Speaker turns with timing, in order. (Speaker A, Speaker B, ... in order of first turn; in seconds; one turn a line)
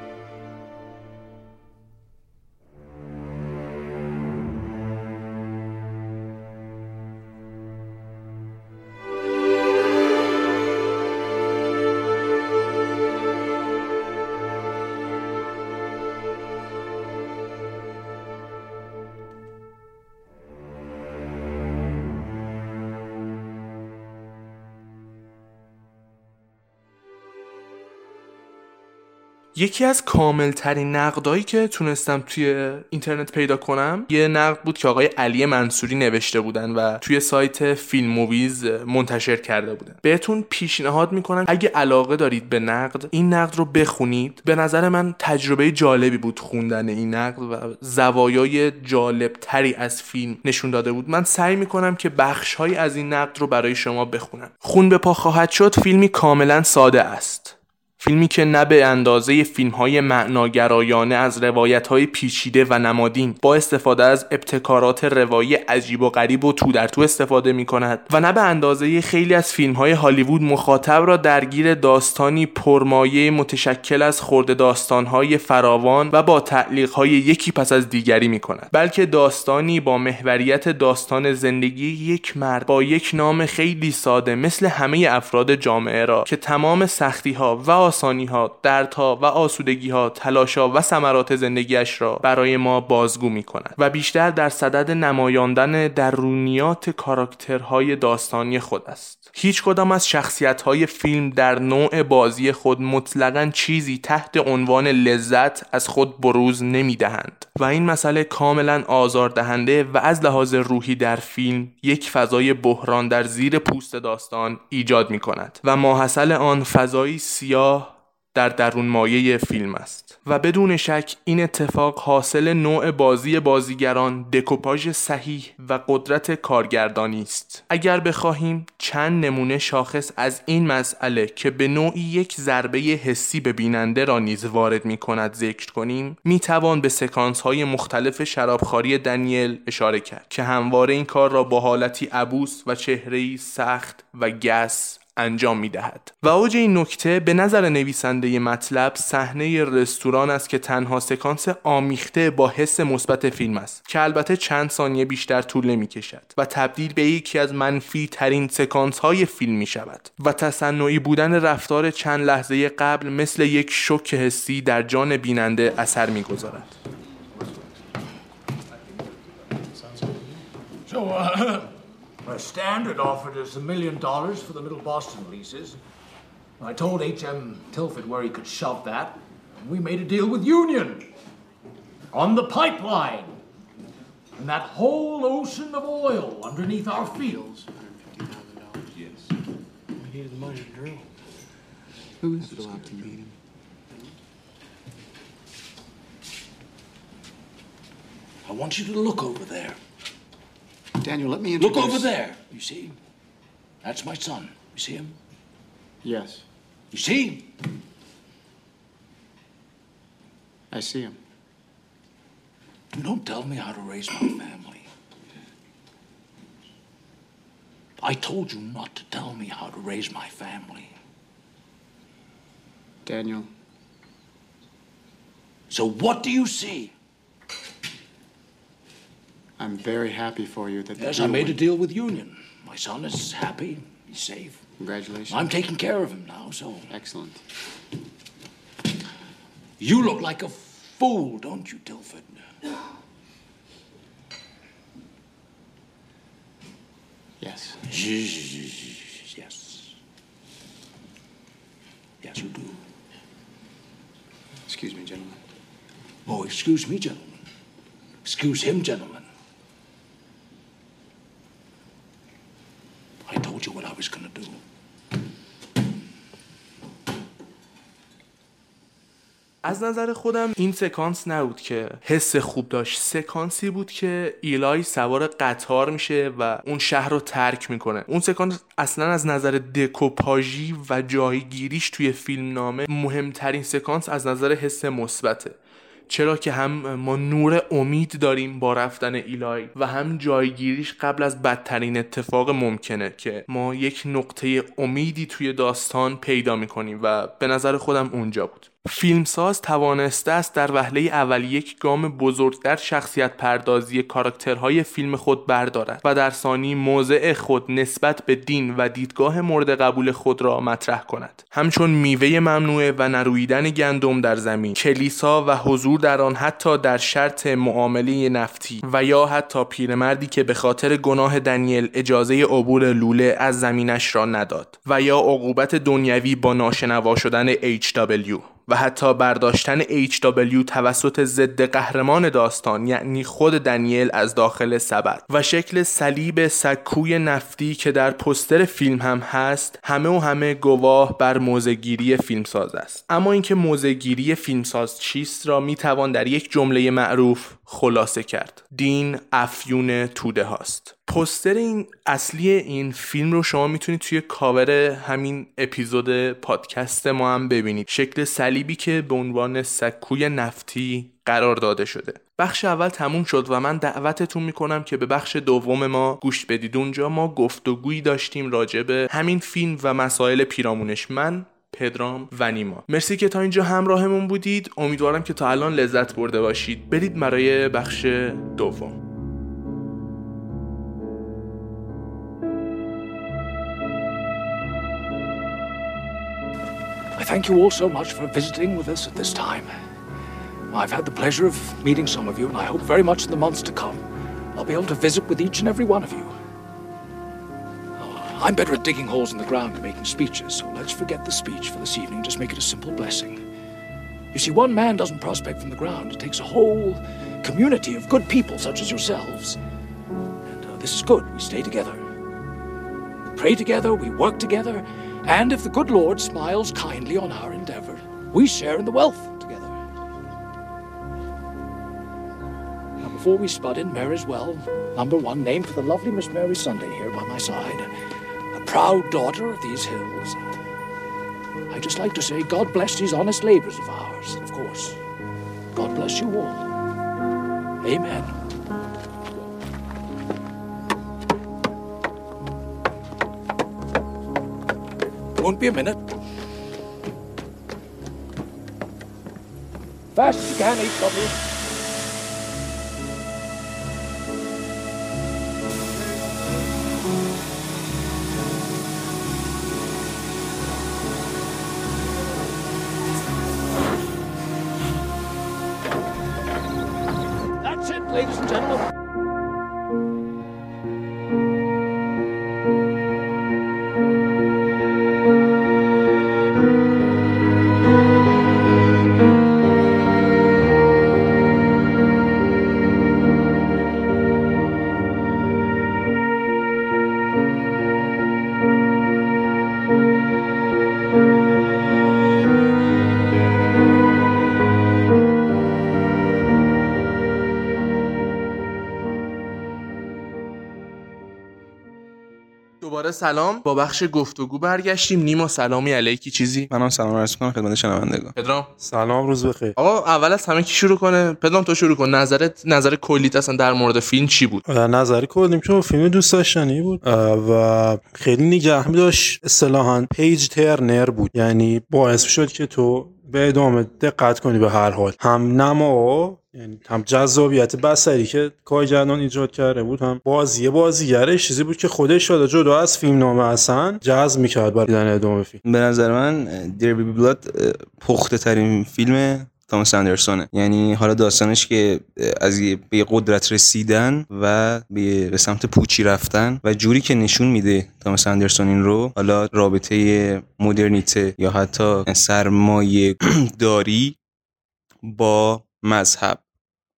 Speaker A: 29.6-166.8
Speaker B: 170.9-171.7
Speaker B: 172.2-175.8
Speaker B: 176.6-181.1
Speaker B: 182.1-183.4
Speaker B: 184.4-187.5
Speaker C: 187.2-188.8
Speaker B: 190.3-190.9
Speaker C: 192.2-193.3
Speaker B: 198.4-199.8
Speaker C: 201.0-202.1
Speaker B: 201.6-203.0
Speaker B: 203.8-205.2
Speaker C: 206.0-206.4
Speaker B: 206.9-207.5
Speaker C: 210.7-211.2
Speaker B: 212.9-214.9
Speaker B: 218.0-220.9
Speaker C: 223.1-223.5
Speaker B: 225.7-226.9
Speaker C: 229.6-231.6
Speaker B: 231.0-234.6
Speaker C: 234.8-235.4
Speaker B: 235.3-236.9
Speaker C: 236.9-237.4
Speaker B: 239.8-242.5
Speaker C: 247.4-247.8
Speaker B: 247.9-249.9
Speaker B: 252.2-252.8
Speaker C: 254.7-255.4
Speaker B: 256.3-257.4
Speaker B: 258.2-259.3
Speaker B: 263.3-264.6
Speaker A: 269.6-285.6
Speaker A: 286.1-379.0
Speaker B: 387.2-389.7
Speaker B: 390.7-396.4
Speaker B: 398.0-403.4
Speaker B: 404.3-409.6
Speaker B: 410.5-412.1
Speaker B: 413.3-419.8
Speaker B: 423.0-427.9
Speaker B: 428.5-430.4
Speaker B: 431.7-435.0
Speaker B: 435.7-436.7
Speaker B: 437.8-438.4
Speaker B: 445.4-446.1
Speaker B: 450.1-451.4
Speaker B: 467.6-468.9
Speaker A: 502.8-506.7
Speaker D: 506.7-508.3
Speaker A: 508.4-508.7
Speaker E: 508.8-509.8
Speaker A: 509.8-514.6
Speaker E: 514.7-535.6
Speaker D: 535.6-554.2
Speaker D: 555.0-556.4